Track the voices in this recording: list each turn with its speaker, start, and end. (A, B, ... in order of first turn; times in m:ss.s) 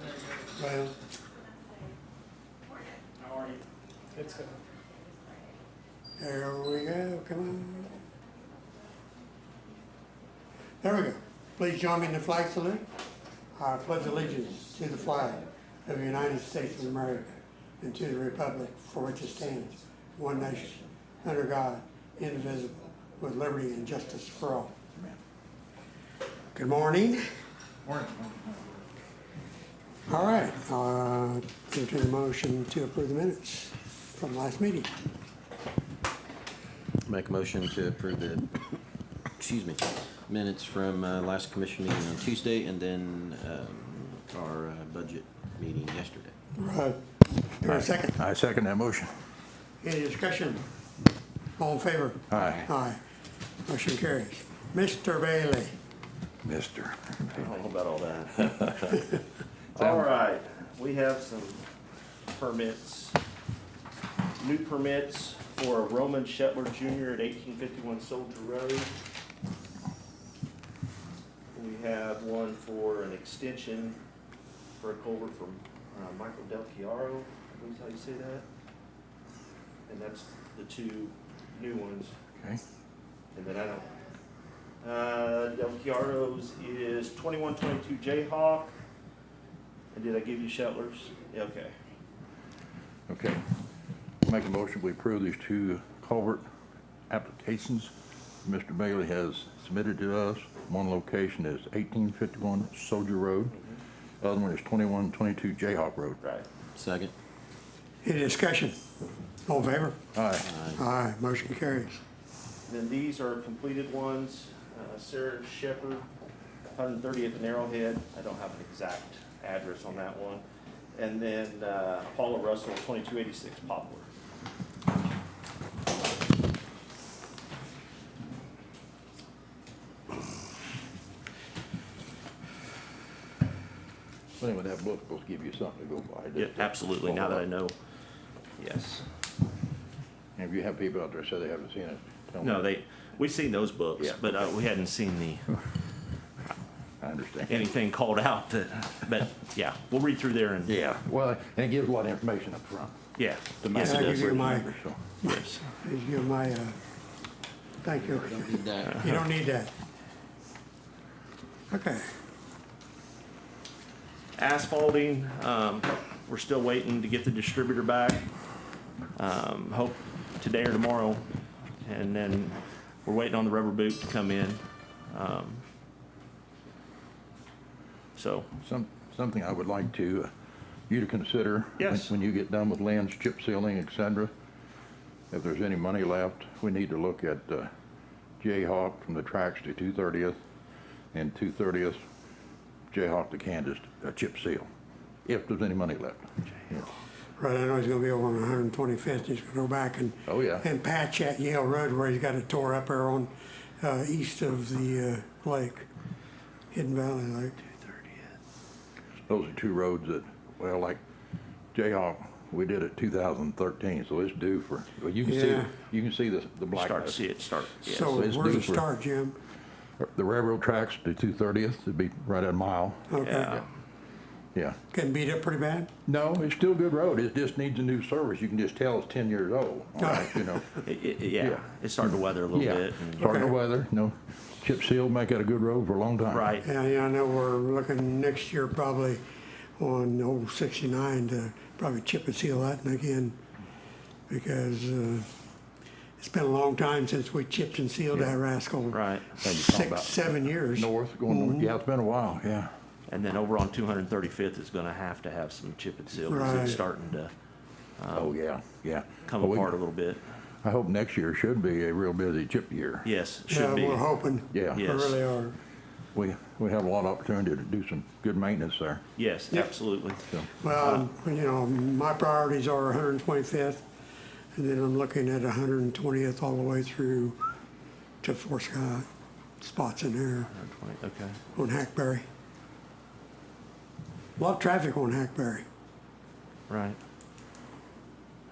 0:00.5-0:01.0 A
0:06.2-0:08.0 A
0:10.8-0:12.9 A
0:13.5-0:24.7 A
0:26.5-0:27.2 A
0:27.8-0:28.8 B
0:30.1-0:34.9 A
0:37.0-0:38.5 C
0:39.4-0:46.3 C
0:46.6-0:47.0 A
0:47.6-0:48.2 A
0:47.6-0:49.1 B
0:49.8-0:50.6 A
0:51.6-0:53.0 A
0:52.3-0:52.6 B
0:52.4-0:52.7 C
0:53.6-0:55.7 A
0:56.4-0:57.4 B
0:57.3-0:59.0 D
0:59.7-1:01.6 D
1:02.3-1:03.2 D
1:04.4-1:08.9 D
1:11.5-1:14.0 D
1:14.8-1:18.4 D
1:19.9-1:22.1 D
1:23.3-1:23.9 D
1:24.8-1:28.7 D
1:29.9-1:31.7 D
1:33.1-1:33.4 B
1:34.2-1:36.4 B
1:37.1-1:37.9 B
1:38.4-1:43.6 B
1:44.2-1:46.2 B
1:46.2-1:46.5 D
1:46.7-1:47.1 C
1:48.0-1:48.7 A
1:49.4-1:50.0 A
1:50.1-1:50.5 B
1:50.4-1:50.8 C
1:50.7-1:52.0 A
1:52.7-1:56.0 D
1:56.7-2:00.4 D
2:00.9-2:04.1 D
2:14.4-2:17.4 B
2:16.4-2:17.7 D
2:18.6-2:19.0 D
2:20.4-2:22.6 B
2:22.4-2:25.6 D
2:24.0-2:24.4 B
2:27.0-2:27.6 B
2:27.5-2:30.7 D
2:30.6-2:33.0 B
2:33.2-2:34.4 D
2:33.6-2:35.0 B
2:33.8-2:36.8 A
2:35.2-2:35.6 D
2:37.8-2:39.7 A
2:37.9-2:39.1 C
2:41.7-2:42.0 A
2:44.4-2:48.2 D
2:49.2-2:51.2 D
2:51.8-2:55.6 D
2:58.2-2:58.5 D
2:58.6-3:00.3 B
3:00.9-3:04.3 B
3:01.8-3:02.1 D
3:05.3-3:07.7 B
3:08.4-3:10.4 B
3:11.1-3:12.0 B
3:12.9-3:14.7 B
3:15.2-3:16.9 B
3:17.4-3:25.9 A
3:20.3-3:20.6 B
3:26.7-3:27.7 A
3:29.3-3:31.0 B
3:31.7-3:37.2 B
3:35.2-3:35.7 A
3:36.7-3:38.2 D
3:37.8-3:39.4 A
3:38.0-3:38.8 B
3:40.0-3:43.1 B
3:43.1-3:43.6 A
3:43.2-3:43.6 D
3:44.9-3:45.9 A
3:46.0-3:50.8 B
3:50.0-3:50.8 A
3:50.8-3:53.3 D
3:51.4-3:56.5 B
3:53.2-3:53.6 A
3:56.3-3:56.6 D
3:56.6-3:59.2 A
3:59.8-4:03.4 A
4:04.3-4:05.3 A
4:06.2-4:11.7 A
4:08.9-4:09.3 D
4:09.3-4:12.7 B
4:13.1-4:17.3 D
4:16.3-4:16.8 A
4:18.0-4:18.3 D
4:18.1-4:19.8 B
4:19.2-4:20.2 D
4:20.6-4:23.0 B
4:23.0-4:24.1 D
4:23.5-4:25.6 A
4:24.5-4:24.8 B
4:24.7-4:25.2 D
4:26.1-4:29.0 B
4:29.2-4:31.1 D
4:30.5-4:33.8 A
4:34.5-4:37.4 A
4:38.2-4:39.0 A
4:39.6-4:40.5 A
4:40.5-4:41.4 D
4:41.5-4:42.2 A
4:44.4-4:45.6 A
4:46.7-4:47.0 D